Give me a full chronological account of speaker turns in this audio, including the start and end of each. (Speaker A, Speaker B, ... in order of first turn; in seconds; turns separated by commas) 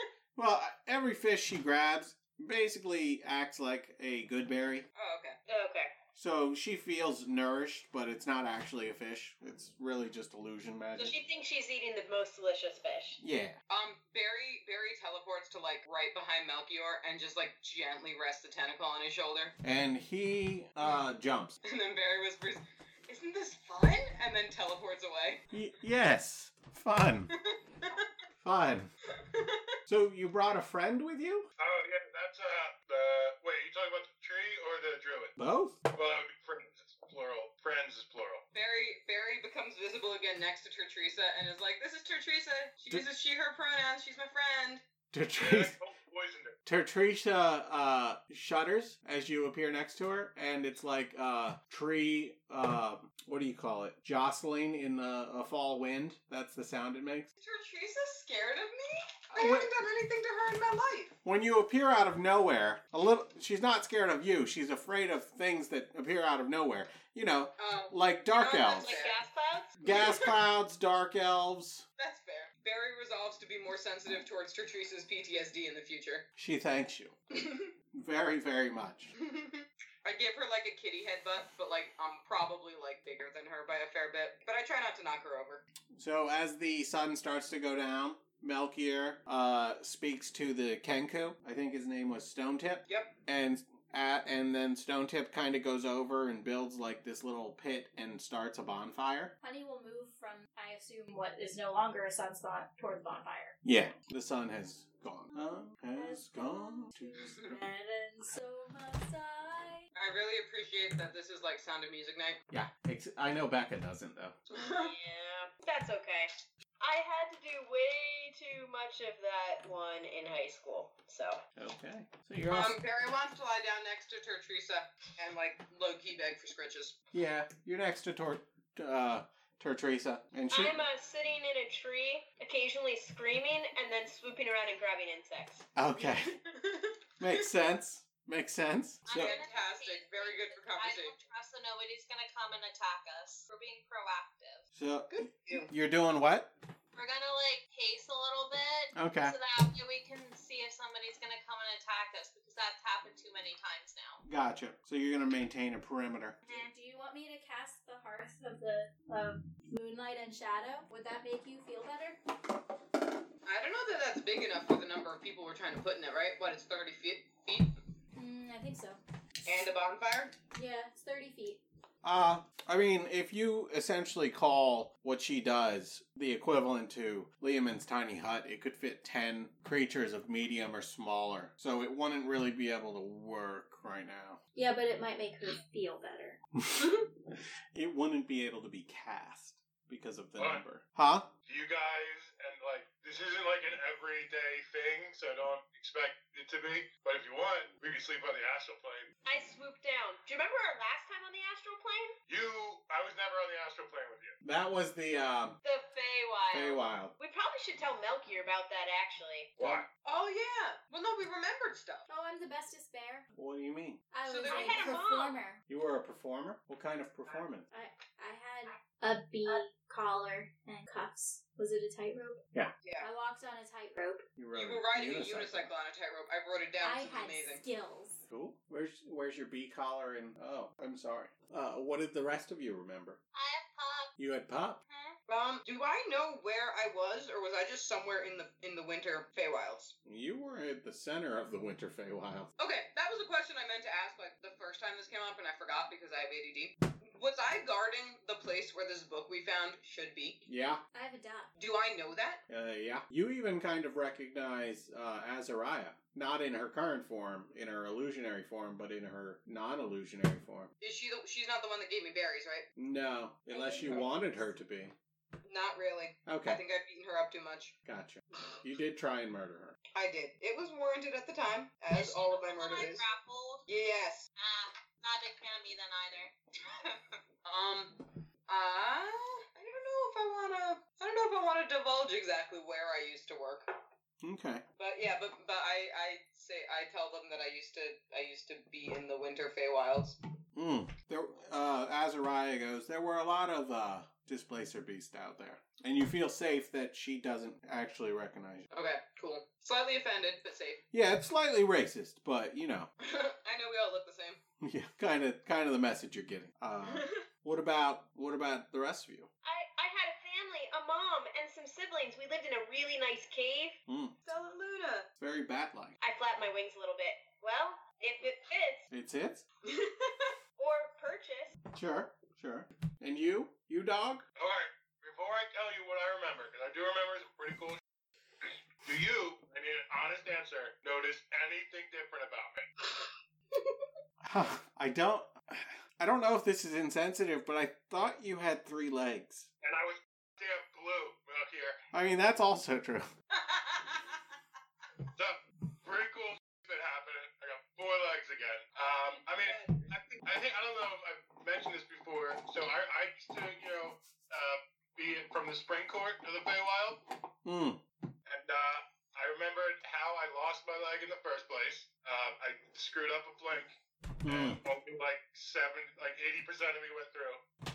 Speaker A: 0.4-4.9, Speaker B: 4.9-5.4, Speaker C: 5.5-5.9, Speaker A: 6.1-11.2, Speaker C: 11.0-13.2, Speaker A: 13.2-13.6, Speaker B: 13.7-19.6, Speaker A: 19.6-21.6, Speaker B: 21.6-25.4, Speaker A: 25.5-27.3, Speaker B: 27.4-28.1, Speaker A: 28.4-28.9, Speaker B: 29.1-29.8, Speaker A: 29.9-31.5, Speaker D: 31.6-35.3, Speaker A: 35.4-35.8, Speaker D: 35.9-38.4, Speaker B: 38.5-44.8, Speaker A: 45.1-45.7, Speaker D: 45.4-46.5, Speaker A: 46.6-57.3, Speaker B: 57.4-61.1, Speaker A: 59.3-59.7, Speaker A: 61.2-68.9, Speaker B: 67.6-69.2, Speaker C: 68.8-70.0, Speaker A: 69.8-71.8, Speaker B: 69.9-70.3, Speaker B: 72.0-76.3, Speaker A: 76.4-77.1, Speaker B: 77.3-77.7, Speaker A: 77.9-79.1, Speaker B: 79.2-85.6, Speaker A: 85.9-99.3, Speaker B: 92.9-93.1, Speaker E: 99.4-103.5, Speaker A: 103.6-107.2, Speaker E: 105.9-109.9, Speaker B: 107.3-107.6, Speaker B: 109.9-112.4, Speaker A: 112.5-114.4, Speaker B: 114.5-114.9, Speaker C: 114.6-116.3, Speaker C: 116.8-121.4, Speaker A: 121.5-122.8, Speaker B: 122.5-127.0, Speaker A: 127.1-130.8, Speaker C: 130.5-135.7, Speaker A: 135.8-136.4, Speaker B: 136.0-137.4, Speaker A: 137.2-139.3, Speaker F: 139.1-144.6, Speaker B: 139.1-141.1, Speaker A: 144.7-146.5, Speaker B: 145.1-145.7, Speaker F: 146.9-154.2, Speaker A: 148.9-149.4, Speaker A: 154.3-156.4, Speaker E: 156.5-162.2, Speaker B: 163.4-167.7, Speaker E: 168.2-169.0, Speaker B: 169.4-170.3, Speaker E: 170.5-171.6, Speaker A: 172.0-184.4, Speaker E: 184.6-186.4, Speaker A: 187.7-191.3, Speaker D: 191.4-199.1, Speaker C: 199.2-202.1, Speaker D: 202.3-204.3, Speaker A: 204.4-205.6, Speaker C: 205.6-209.5, Speaker A: 206.5-207.1, Speaker D: 209.6-209.8, Speaker A: 209.6-209.8, Speaker B: 210.0-212.1, Speaker E: 212.1-213.2, Speaker A: 213.3-214.0, Speaker E: 214.1-215.6, Speaker B: 214.3-214.9, Speaker C: 214.4-215.4, Speaker A: 215.7-217.6, Speaker E: 217.7-222.4, Speaker E: 223.0-224.2, Speaker A: 224.4-225.7, Speaker B: 224.5-227.6, Speaker E: 226.8-228.2, Speaker A: 228.3-233.2, Speaker F: 233.3-234.1, Speaker A: 234.2-234.8, Speaker F: 234.9-235.1, Speaker B: 235.3-239.9, Speaker A: 240.1-242.5, Speaker B: 242.6-250.4, Speaker A: 250.5-250.8, Speaker E: 250.9-251.5, Speaker B: 251.6-252.4, Speaker A: 252.5-260.7, Speaker B: 260.8-262.7, Speaker A: 262.8-264.9, Speaker E: 263.5-264.2, Speaker B: 263.7-264.1, Speaker B: 265.4-267.7, Speaker A: 266.3-266.6, Speaker A: 267.9-269.8, Speaker B: 269.9-273.1, Speaker F: 271.9-273.6, Speaker B: 273.7-274.3, Speaker F: 274.4-276.3, Speaker B: 276.8-283.7, Speaker A: 284.2-284.6, Speaker B: 284.8-290.2, Speaker A: 290.6-298.7, Speaker B: 298.7-300.8, Speaker A: 300.9-302.9, Speaker B: 303.0-304.4, Speaker A: 304.6-309.3, Speaker B: 306.8-307.1, Speaker C: 309.4-313.8, Speaker A: 313.9-314.1, Speaker B: 314.2-315.1, Speaker A: 315.2-316.0, Speaker C: 316.0-318.8, Speaker A: 318.9-319.4, Speaker B: 319.6-320.3, Speaker C: 320.6-321.6, Speaker A: 321.7-324.2, Speaker D: 324.4-327.8, Speaker D: 328.4-332.6, Speaker A: 334.2-339.5, Speaker D: 339.6-341.8, Speaker A: 341.9-343.1, Speaker B: 343.3-344.2, Speaker D: 345.1-357.0, Speaker B: 349.1-349.9, Speaker A: 357.4-357.8, Speaker D: 358.3-367.4, Speaker A: 364.2-364.6